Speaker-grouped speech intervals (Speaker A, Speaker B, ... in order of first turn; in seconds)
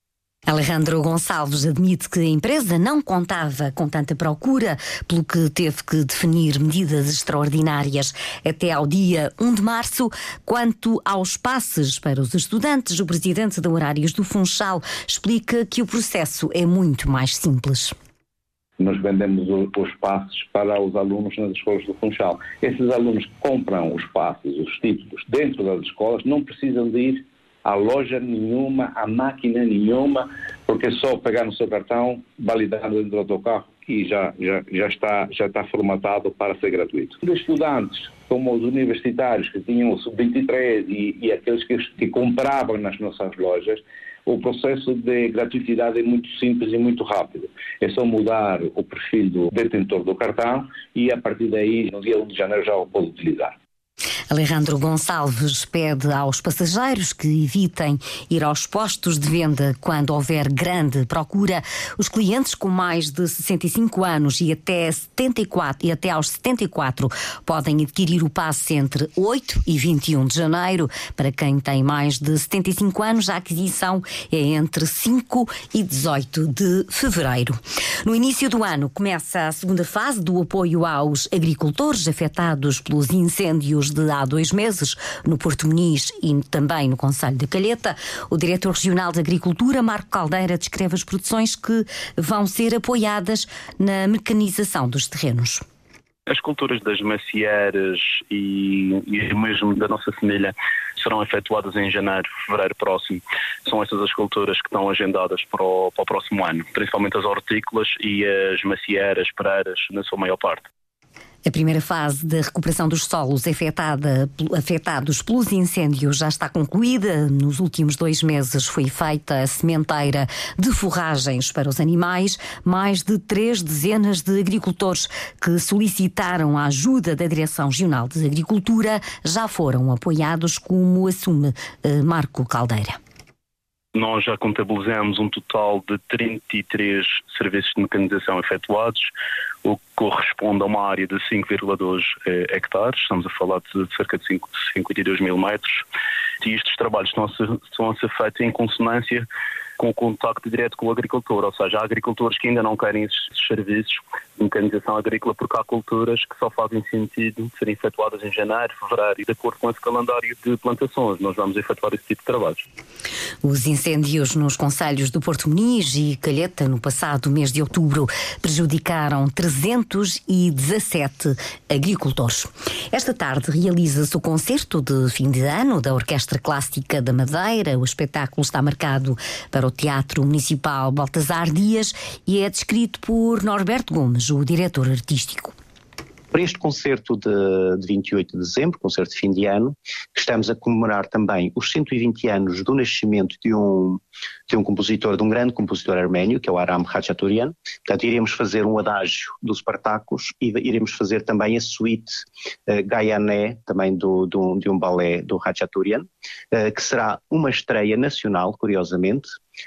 Speaker A: 0.5-17.9, 54.3-95.6, 111.4-133.0, 163.4-185.5
Speaker B: 18.8-53.5
Speaker C: 96.3-110.6, 133.9-139.1, 139.6-145.8, 146.4-149.2, 149.8-162.6
Speaker D: 186.3-209.3